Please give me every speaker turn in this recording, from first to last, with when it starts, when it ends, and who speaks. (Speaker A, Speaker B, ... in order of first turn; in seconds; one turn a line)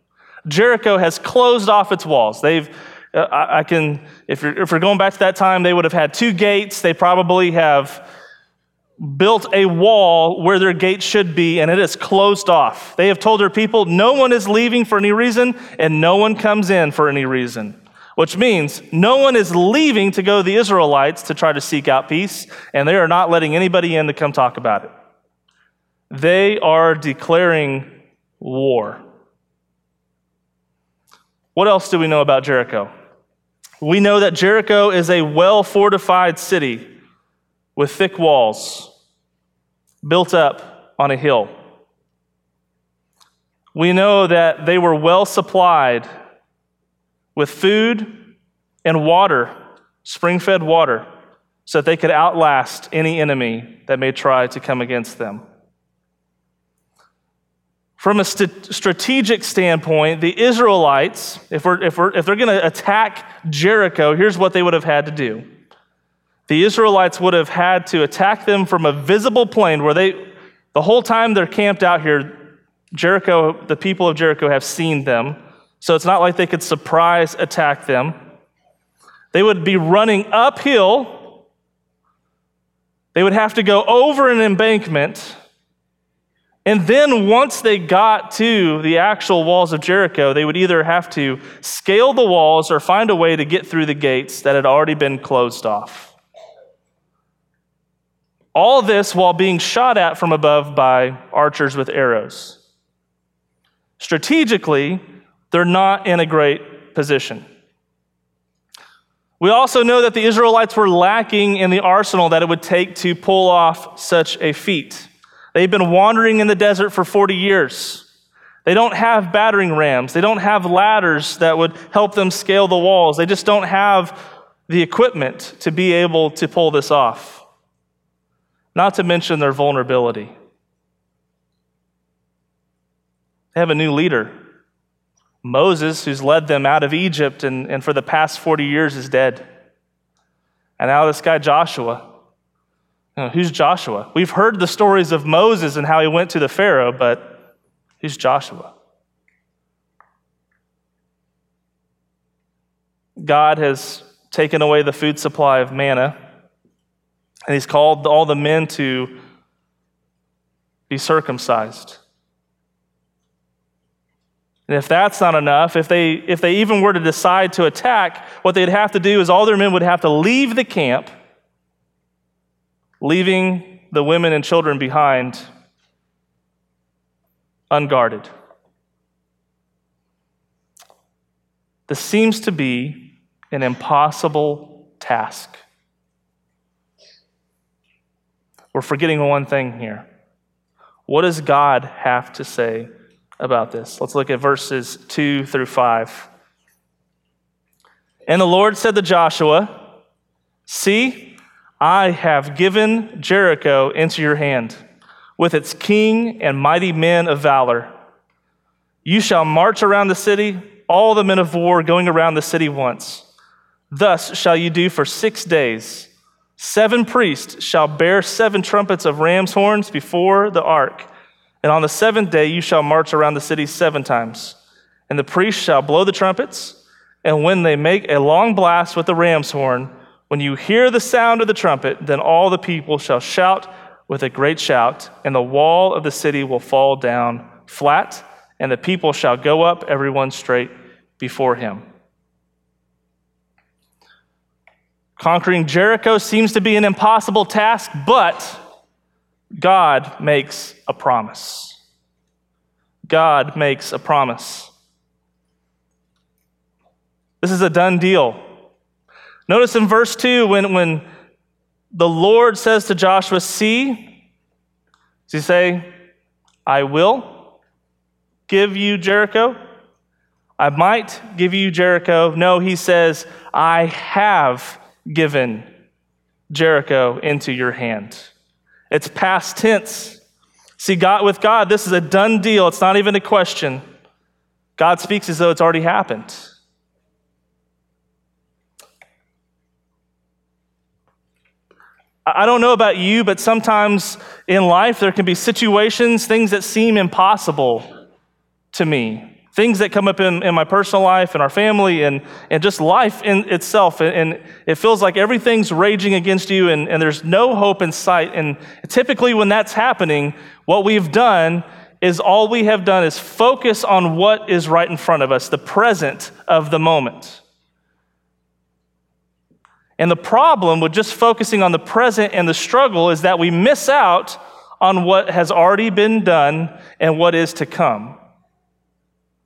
Speaker A: 0.5-8.1
Speaker A: 9.0-24.9
Speaker A: 26.1-29.0
Speaker A: 31.6-32.9
Speaker A: 33.8-36.9
Speaker A: 37.8-38.9
Speaker A: 40.0-41.5
Speaker A: 43.7-46.1
Speaker A: 47.4-48.2
Speaker A: 48.9-51.1
Speaker A: 51.7-55.4
Speaker A: 58.0-65.5
Speaker A: 66.5-78.2
Speaker A: 79.3-81.4
Speaker A: 83.1-85.4
Speaker A: 86.7-96.2
Speaker A: 98.5-102.6
Speaker A: 104.0-107.5
Speaker A: 109.4-118.1
Speaker A: 118.7-127.4
Speaker A: 128.8-130.3
Speaker A: 133.6-134.3
Speaker A: 135.4-139.4
Speaker A: 140.8-142.0
Speaker A: 143.2-147.4
Speaker A: 148.0-148.7
Speaker A: 153.2-156.2
Speaker A: 157.5-159.1
Speaker A: 160.9-162.0
Speaker A: 164.7-171.1
Speaker A: 173.0-175.5
Speaker A: 177.7-178.3
Speaker A: 181.9-185.6
Speaker A: 188.7-190.1
Speaker A: 191.1-196.3
Speaker A: 198.3-199.8
Speaker A: 200.7-204.8
Speaker A: 205.4-207.9
Speaker A: 209.1-213.3
Speaker A: 213.9-221.1
Speaker A: 221.6-224.6
Speaker A: 225.1-241.8
Speaker A: 245.2-248.6
Speaker A: 249.6-251.8
Speaker A: 253.1-254.7
Speaker A: 257.4-258.4
Speaker A: 259.5-261.0
Speaker A: 261.9-264.2
Speaker A: 265.3-265.9
Speaker A: 266.7-267.5
Speaker A: 268.5-269.6
Speaker A: 270.6-275.7
Speaker A: 276.5-278.3
Speaker A: 278.9-280.2
Speaker A: 280.8-283.8
Speaker A: 284.8-286.5
Speaker A: 292.3-297.9
Speaker A: 298.7-317.4
Speaker A: 320.0-328.2